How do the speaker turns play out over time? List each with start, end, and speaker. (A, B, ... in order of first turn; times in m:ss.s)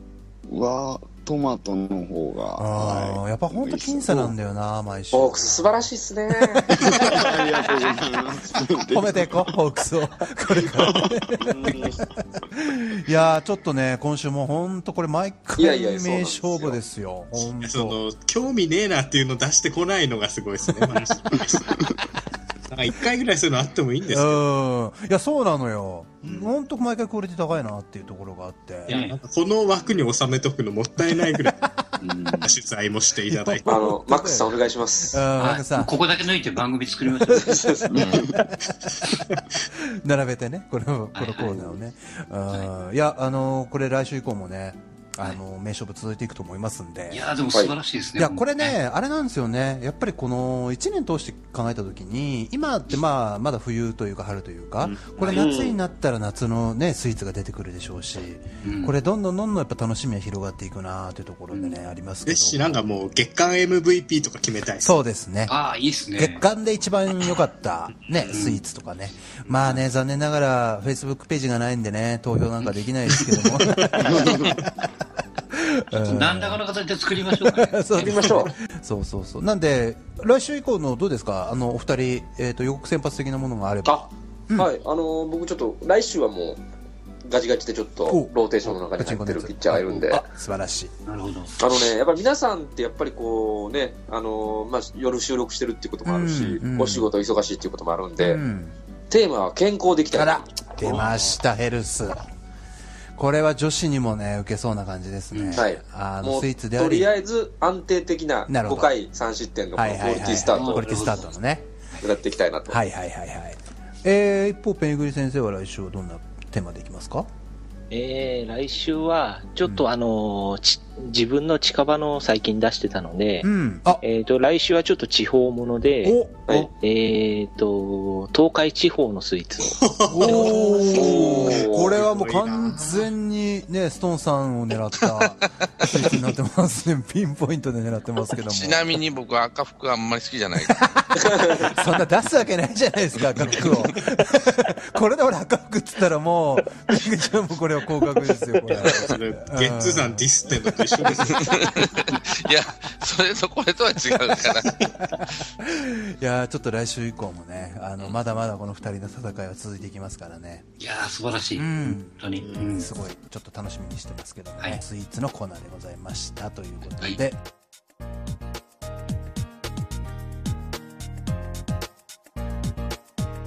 0:00.5-0:04.4 A
0:02.6-0:05.9 B
0:05.1-0:07.5 C
0:06.5-0:07.0 B
0:06.8-0:09.6 A
0:08.9-0:18.0 B
0:10.6-0:11.9 A
0:11.5-0:12.0 C
0:15.6-0:16.8 C
0:17.6-0:21.7 D
0:22.7-0:24.4 D
0:24.1-0:28.9 B
0:26.2-0:26.5 E
0:28.9-0:29.2 E
0:28.9-0:31.6 D
0:32.0-0:32.5 E
0:32.4-0:33.8 D
0:33.3-0:34.6 B
0:33.7-0:35.2 C
0:35.1-0:36.0 B
0:35.4-0:37.8 E
0:37.2-0:37.5 B
0:37.3-0:38.1 C
0:37.9-0:38.2 F
0:38.0-0:38.4 A
0:39.7-0:47.2 B
0:41.1-0:41.7 E
0:47.1-0:48.8 E
0:48.2-1:02.6 B
0:55.2-0:55.5 E
0:55.3-0:55.8 C
0:58.6-0:58.9 E
1:01.5-1:01.8 E
1:02.2-1:05.0 D
1:04.8-1:05.5 B
1:05.5-1:06.4 E
1:06.2-1:14.6 B
1:08.3-1:08.6 E
1:15.5-1:16.6 B
1:16.0-1:18.1 E
1:17.3-1:24.7 B
1:18.0-1:18.5 C
1:23.8-1:26.6 C
1:27.2-1:30.2 C
1:28.1-1:30.9 B
1:31.0-1:31.6 E
1:31.6-1:38.4 C
1:36.0-1:37.1 B
1:38.2-1:38.7 B
1:39.1-1:41.0 C
1:40.1-1:42.2 B
1:43.2-1:47.1 B
1:45.3-1:45.6 E
1:45.5-1:50.8 C
1:48.5-1:48.9 B
1:49.8-1:51.7 B
1:50.5-1:51.3 E
1:52.0-1:52.8 C
1:52.7-1:57.3 B
1:57.9-2:10.7 G
2:03.4-2:04.0 B
2:06.0-2:06.5 B
2:09.8-2:13.1 D
2:10.1-2:19.0 B
2:10.2-2:11.9 C
2:18.4-2:20.9 F
2:20.6-2:30.3 B
2:28.9-2:31.4 D
2:31.4-2:35.2 F
2:34.4-2:34.7 D
2:35.6-2:40.6 B
2:40.8-2:42.9 E
2:41.6-2:47.4 B